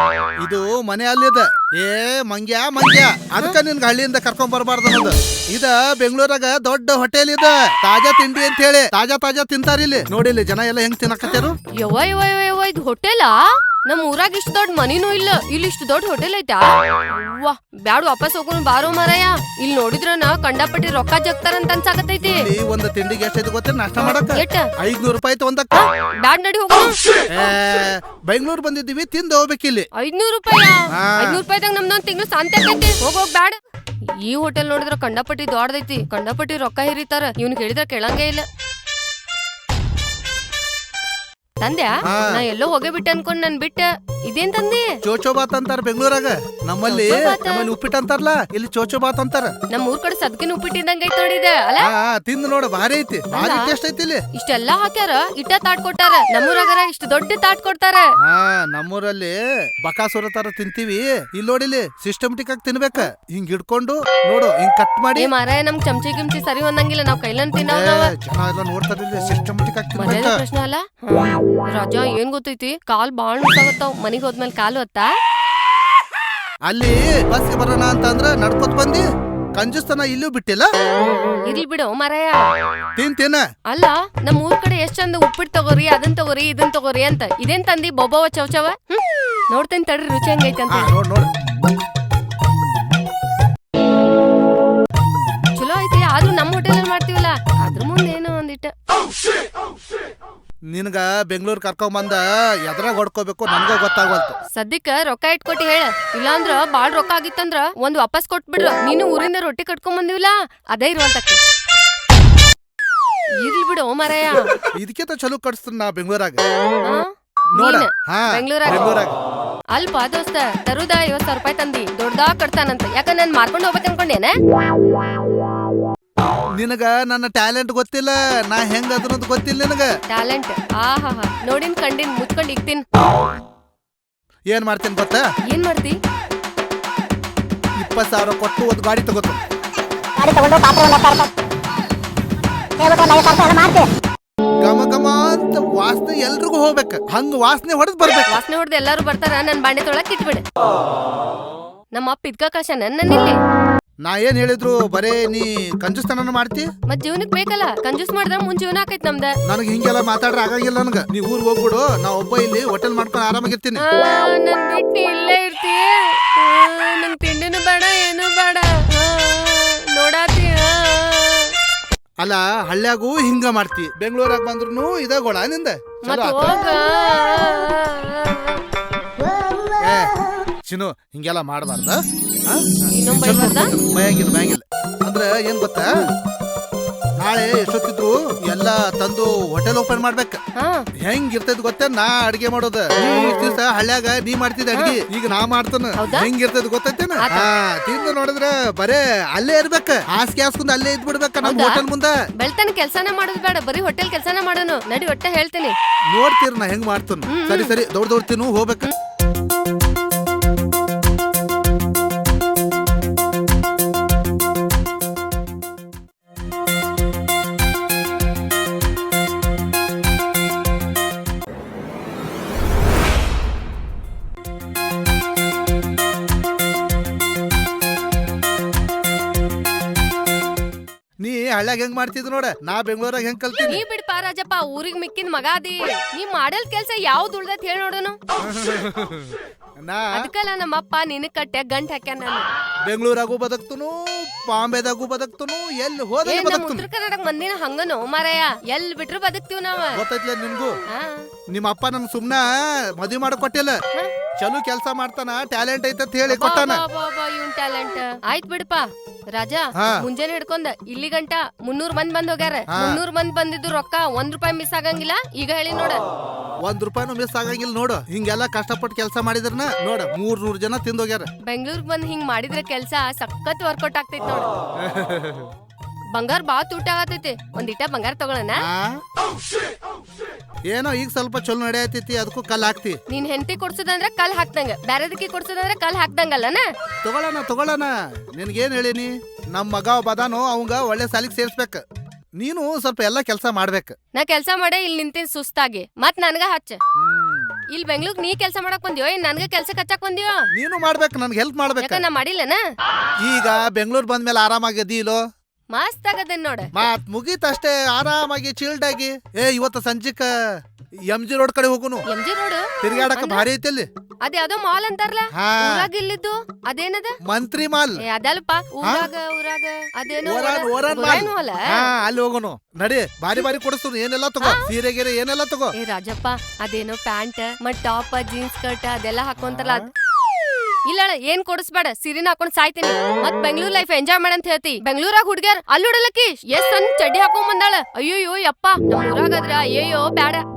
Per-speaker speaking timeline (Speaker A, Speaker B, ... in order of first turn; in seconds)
Speaker A: 0.4-11.6, 22.2-25.8, 27.3-29.9, 31.0-31.2, 42.1-42.4, 45.0-49.5, 51.9-54.2, 58.2-65.3, 67.7-70.4, 76.7-79.0, 79.5-80.7, 83.0-83.4, 90.7-91.3, 100.7-104.3, 114.6-116.4, 117.5-119.2, 126.5-129.9, 134.5-135.2, 137.8-139.4, 144.6-148.4, 154.0-156.7, 159.5-163.8, 172.2-176.7, 179.8-180.1, 180.6-186.0, 187.2-190.4, 191.0-202.1, 206.1-208.9, 231.2-233.8, 238.4-240.3, 242.8-246.9, 249.9-250.8, 251.5-253.8, 254.4-256.8, 262.7-263.0, 266.6-271.3, 274.8-275.5, 278.6-279.0, 280.7-283.0, 287.0-291.8, 292.4-293.9, 297.0-297.6, 300.6-302.0, 303.2-305.2, 306.7-310.3, 311.1-312.0, 312.8-313.9, 315.4-315.9, 317.2-318.0, 318.8-319.1, 320.2-325.7, 329.4-329.9
Speaker B: 11.2-22.4, 24.0-24.7, 25.7-26.9, 29.9-33.6, 34.2-38.4, 41.6-44.9, 46.9-47.7, 49.7-51.9, 53.3-53.7, 54.3-58.1, 65.2-68.1, 70.0-75.1, 81.5-82.5, 83.7-90.9, 95.5-98.7, 104.5-111.4, 113.4-114.5, 116.8-118.9, 119.7-124.3, 130.1-132.8, 135.5-135.9, 148.3-150.4, 151.9-153.3, 156.9-159.3, 163.8-171.5, 176.1-178.6, 182.9-183.7, 190.6-190.9, 196.0-196.3, 197.2-197.5, 201.4-201.8, 202.4-205.7, 207.3-207.7, 233.6-238.2, 240.1-242.4, 246.2-250.0, 250.9-251.3, 256.3-266.0, 271.4-274.5, 276.1-278.6, 283.1-286.6, 294.1-296.8, 297.7-300.5, 301.8-302.6, 305.7-306.7, 312.1-313.4, 314.2-317.2, 318.0-321.6, 324.4-324.7, 325.8-329.8, 330.9-340.4
Speaker C: 140.2-141.3, 142.8-143.9